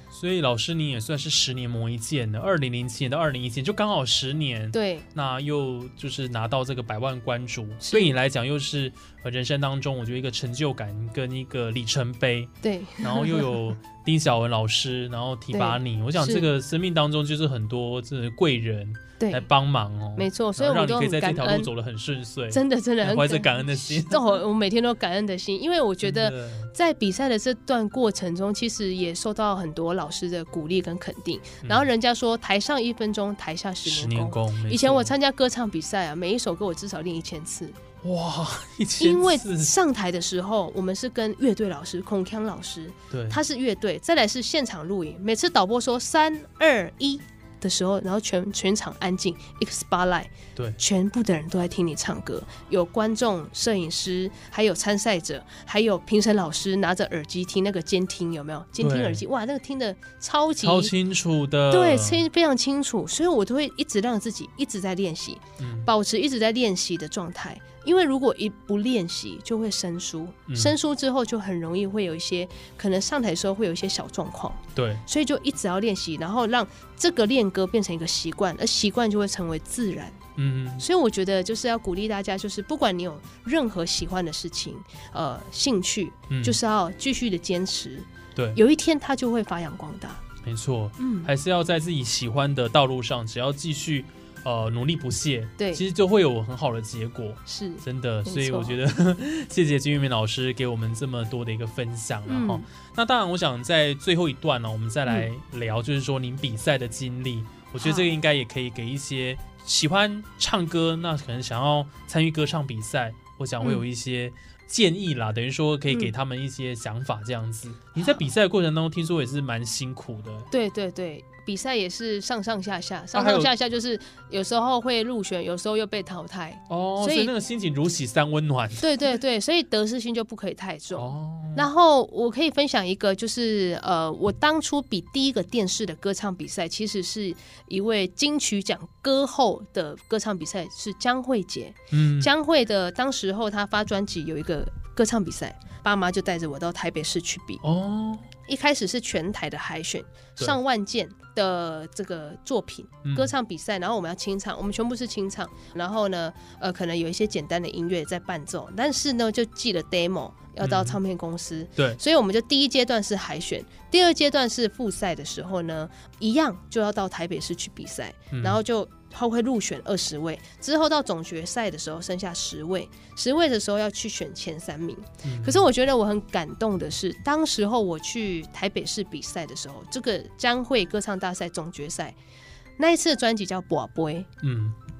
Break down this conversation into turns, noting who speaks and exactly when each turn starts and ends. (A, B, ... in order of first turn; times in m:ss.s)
0:00.1-0:24.4 A
0:04.7-0:05.1 B
0:07.8-0:08.1 B
0:12.6-0:13.6 B
0:15.5-0:16.5 B
0:19.2-0:19.5 B
0:20.2-0:21.7 B
0:22.5-0:37.8 B
0:26.0-0:26.7 A
0:31.6-0:31.9 A
0:33.8-0:35.1 A
0:38.0-0:39.7 A
0:39.0-1:00.9 B
0:43.1-0:43.4 A
0:58.8-0:59.2 A
1:00.6-1:02.2 A
1:01.7-1:20.2 B
1:05.6-1:05.9 A
1:10.5-1:10.8 A
1:14.8-1:15.0 A
1:20.4-1:20.8 A
1:20.8-1:30.2 B
1:26.3-1:26.6 A
1:28.4-1:28.6 A
1:30.4-2:00.5 A
1:31.0-1:31.3 B
1:35.6-1:35.8 B
1:37.5-1:38.8 B
1:42.3-1:42.6 B
1:47.8-1:48.1 B
1:58.0-1:58.2 B
2:00.5-2:07.3 B
2:03.1-2:03.5 A
2:06.7-2:08.9 A
2:08.8-2:27.6 B
2:11.0-2:11.7 A
2:21.9-2:22.3 A
2:27.6-2:28.3 A
2:28.5-3:02.2 B
2:33.0-2:33.3 A
2:40.6-2:41.0 A
2:48.3-2:48.6 A
2:55.2-2:55.6 A
3:02.8-3:04.3 B
3:04.4-3:04.8 A